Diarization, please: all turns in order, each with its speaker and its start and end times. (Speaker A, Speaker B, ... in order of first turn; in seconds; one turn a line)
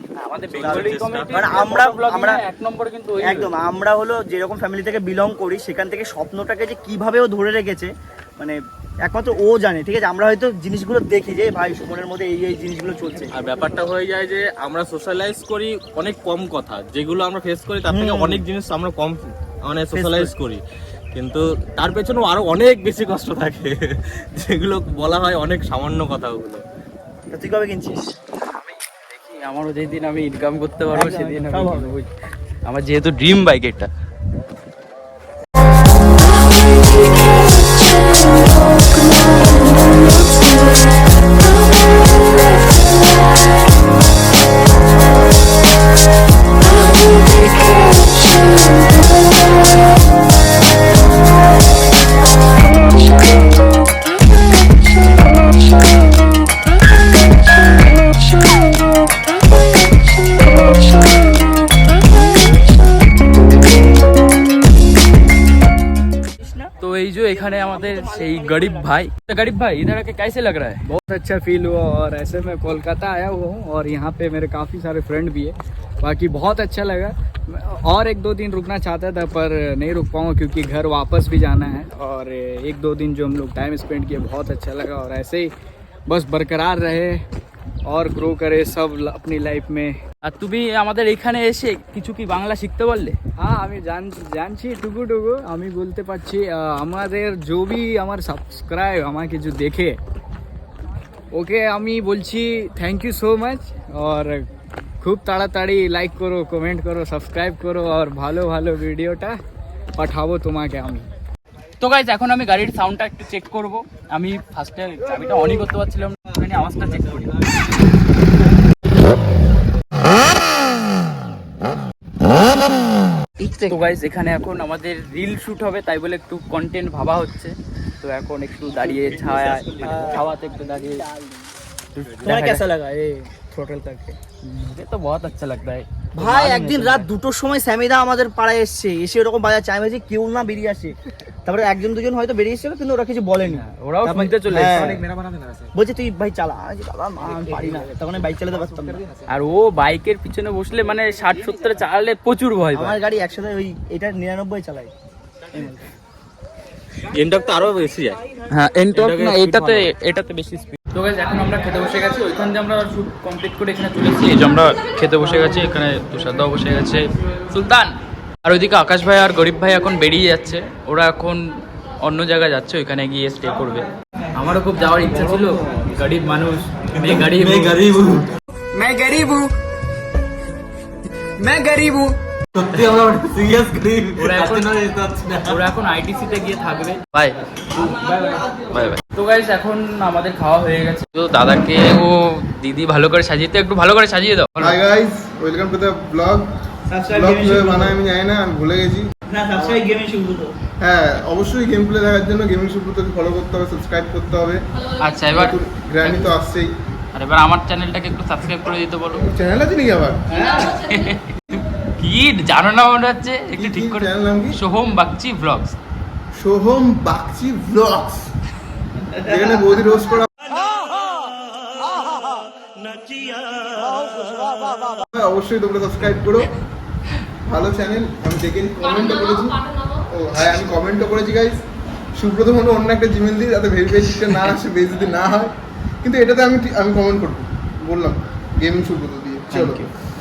Speaker A: 0.2-3.5
Speaker B: 0.5-1.5
Speaker C: 0.5-2.4
Speaker C: 3.2-13.3
Speaker B: 13.3-20.6
Speaker C: 17.9-18.5
Speaker C: 19.9-20.3
Speaker B: 21.1-26.6
Speaker C: 27.3-28.1
Speaker A: 28.5-32.1
Speaker C: 30.9-31.9
Speaker A: 32.6-33.9
Speaker C: 66.4-66.7
Speaker A: 66.8-70.8
Speaker C: 67.3-68.9
Speaker D: 70.9-85.5
Speaker D: 86.1-87.2
Speaker D: 87.9-90.0
Speaker A: 90.3-93.2
Speaker D: 93.4-100.0
Speaker D: 101.3-104.5
Speaker D: 105.0-109.4
Speaker D: 110.0-111.1
Speaker A: 111.8-117.3
Speaker C: 123.4-123.8
Speaker A: 123.7-131.1
Speaker C: 128.8-130.2
Speaker A: 132.0-132.6
Speaker C: 132.2-134.2
Speaker A: 134.4-137.1
Speaker C: 136.2-145.1
Speaker A: 143.4-144.9
Speaker C: 145.7-149.0
Speaker A: 147.4-147.8
Speaker A: 149.3-153.0
Speaker C: 152.7-154.9
Speaker C: 155.5-155.9
Speaker B: 157.1-158.2
Speaker A: 158.5-177.8
Speaker B: 158.9-159.9
Speaker B: 177.0-178.3
Speaker D: 178.7-179.5
Speaker D: 181.4-182.2
Speaker B: 182.6-185.6
Speaker A: 184.2-184.7
Speaker A: 185.4-194.8
Speaker E: 194.6-196.5
Speaker C: 196.9-198.0
Speaker E: 197.1-199.1
Speaker C: 199.3-200.5
Speaker E: 200.8-204.6
Speaker A: 205.0-206.3
Speaker E: 205.3-206.7
Speaker A: 207.1-209.3
Speaker E: 209.3-210.2
Speaker A: 210.4-215.8
Speaker E: 213.5-214.6
Speaker E: 216.4-218.3
Speaker E: 219.3-220.3
Speaker C: 220.6-221.3
Speaker C: 221.8-225.0
Speaker E: 225.1-226.5
Speaker E: 227.5-231.6
Speaker E: 232.2-239.8
Speaker A: 239.5-239.9